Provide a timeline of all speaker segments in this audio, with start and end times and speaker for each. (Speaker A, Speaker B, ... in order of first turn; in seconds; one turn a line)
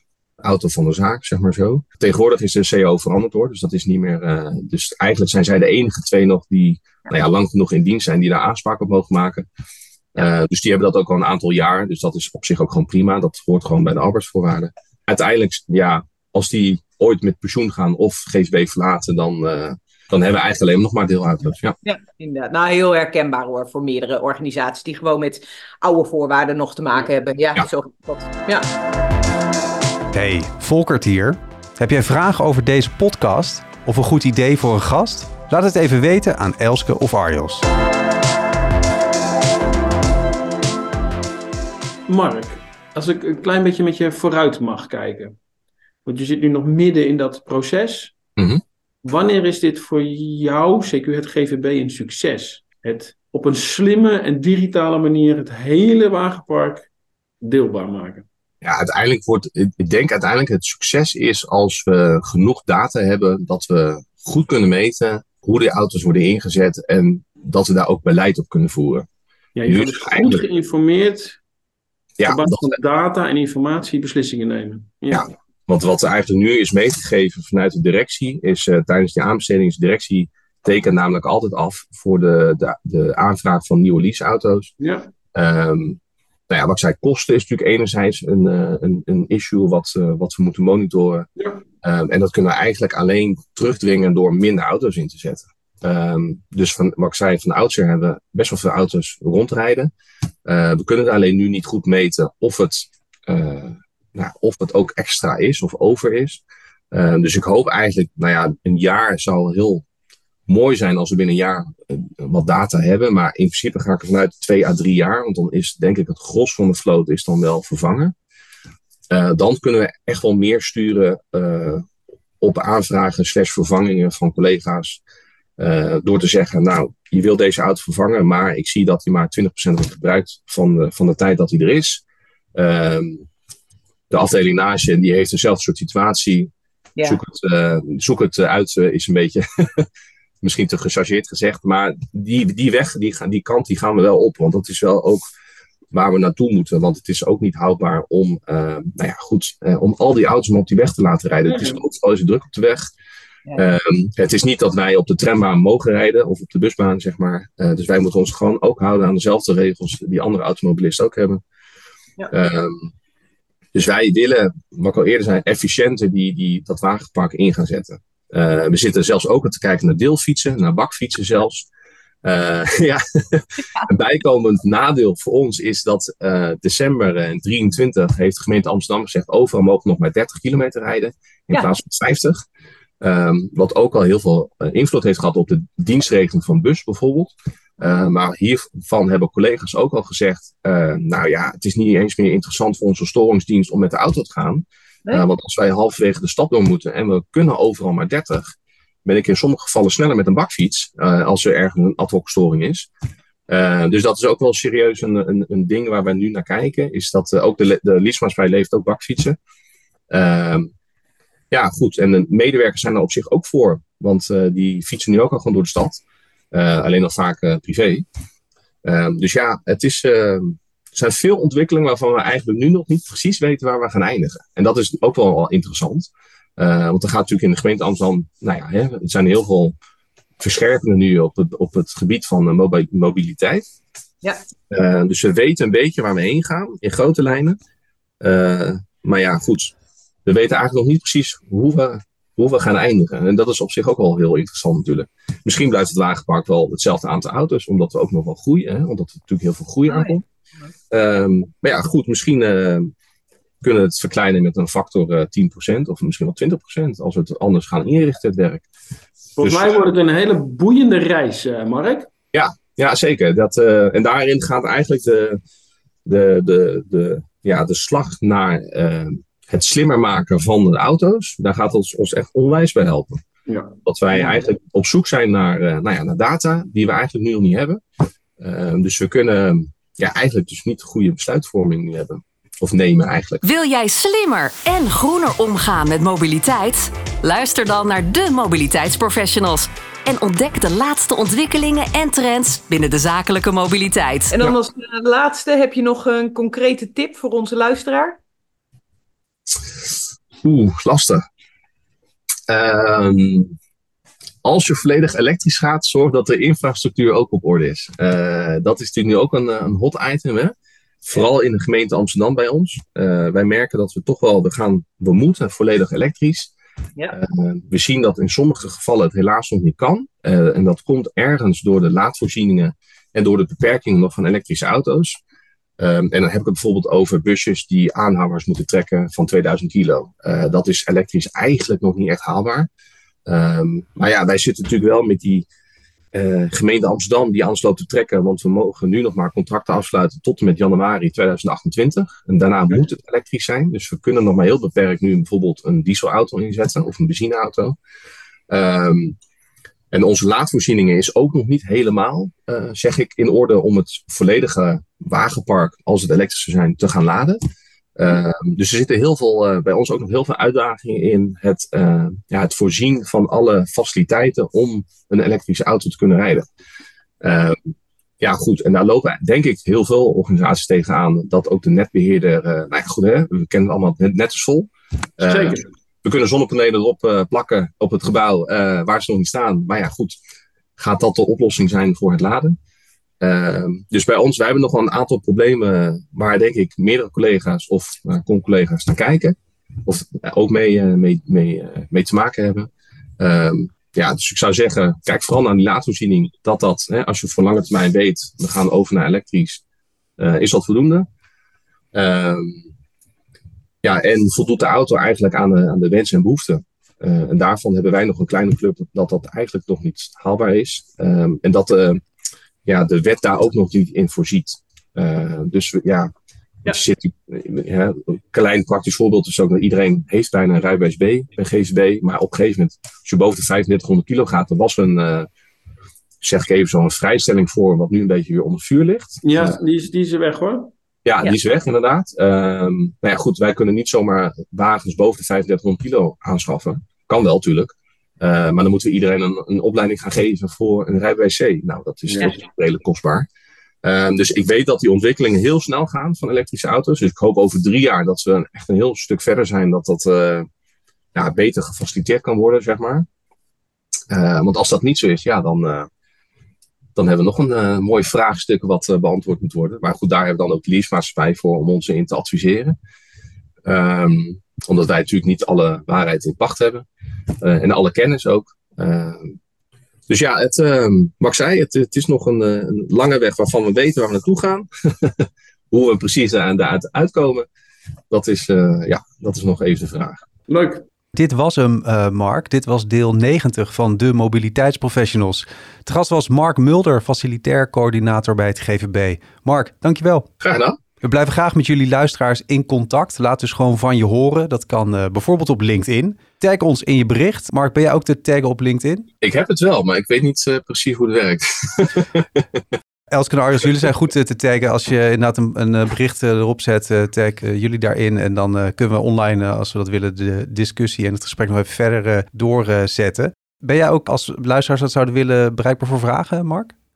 Speaker A: 0.4-9.5
Speaker A: 10.1-21.8
Speaker B: 21.8-28.7
Speaker C: 30.1-37.7
Speaker D: 42.1-45.4
Speaker D: 46.0-48.1
Speaker A: 48.4-48.6
Speaker D: 49.0-56.9
Speaker D: 57.4-58.2
Speaker A: 58.6-69.1
Speaker D: 69.5-71.4
Speaker A: 69.7-70.5
Speaker A: 72.2-72.8
Speaker D: 72.3-75.3
Speaker A: 75.1-84.7
Speaker D: 84.8-85.1
Speaker A: 85.3-91.3
Speaker D: 91.4-91.6
Speaker A: 91.8-99.9
Speaker A: 100.5-109.8
Speaker A: 110.5-118.1
Speaker A: 119.1-121.9
Speaker A: 122.4-125.0
Speaker A: 125.6-132.0
Speaker A: 132.6-133.3
Speaker A: 134.1-136.5
Speaker A: 137.0-139.9
Speaker A: 140.4-145.2
Speaker A: 145.9-152.8
Speaker D: 151.5-151.8
Speaker A: 153.6-161.4
Speaker A: 162.3-162.9
Speaker A: 163.7-171.7
Speaker A: 172.2-182.4
Speaker A: 183.0-198.5
Speaker A: 199.1-202.9
Speaker A: 203.5-209.4
Speaker A: 210.1-210.7
Speaker A: 211.5-218.1
Speaker A: 218.8-229.8
Speaker A: 230.4-233.7
Speaker A: 234.7-237.6
Speaker A: 238.2-239.7
Speaker A: 240.2-250.2
Speaker B: 249.9-250.7
Speaker A: 250.9-252.9
Speaker A: 253.6-258.7
Speaker D: 259.4-262.1
Speaker A: 259.4-259.9
Speaker A: 262.3-265.4
Speaker A: 266.1-273.2
Speaker D: 273.5-274.3
Speaker A: 273.9-277.8
Speaker A: 278.4-283.4
Speaker E: 283.4-294.3
Speaker B: 294.3-298.2
Speaker A: 300.4-301.2
Speaker A: 302.5-303.6
Speaker A: 304.4-310.5
Speaker A: 311.0-316.5
Speaker A: 317.1-325.2
Speaker A: 325.8-332.7
Speaker A: 333.3-335.5
Speaker A: 336.1-347.8
Speaker A: 348.5-349.2
Speaker A: 349.9-357.4
Speaker A: 358.0-366.5
Speaker A: 367.2-380.1
Speaker D: 375.2-375.7
Speaker A: 380.8-382.6
Speaker A: 383.2-399.6
Speaker A: 400.2-401.1
Speaker A: 401.9-402.7
Speaker A: 403.8-412.0
Speaker A: 412.6-416.1
Speaker A: 416.6-425.3
Speaker A: 426.2-429.6
Speaker D: 429.2-430.7
Speaker A: 431.1-443.3
Speaker D: 442.1-442.4
Speaker A: 443.8-450.5
Speaker A: 451.1-453.1
Speaker A: 454.1-455.9
Speaker A: 456.9-462.8
Speaker A: 463.6-466.9
Speaker A: 467.4-469.4
Speaker A: 470.1-477.5
Speaker A: 478.1-480.2
Speaker D: 480.5-480.9
Speaker C: 481.1-490.3
Speaker A: 490.4-490.8
Speaker C: 491.0-499.1
Speaker A: 499.2-502.6
Speaker C: 503.1-516.7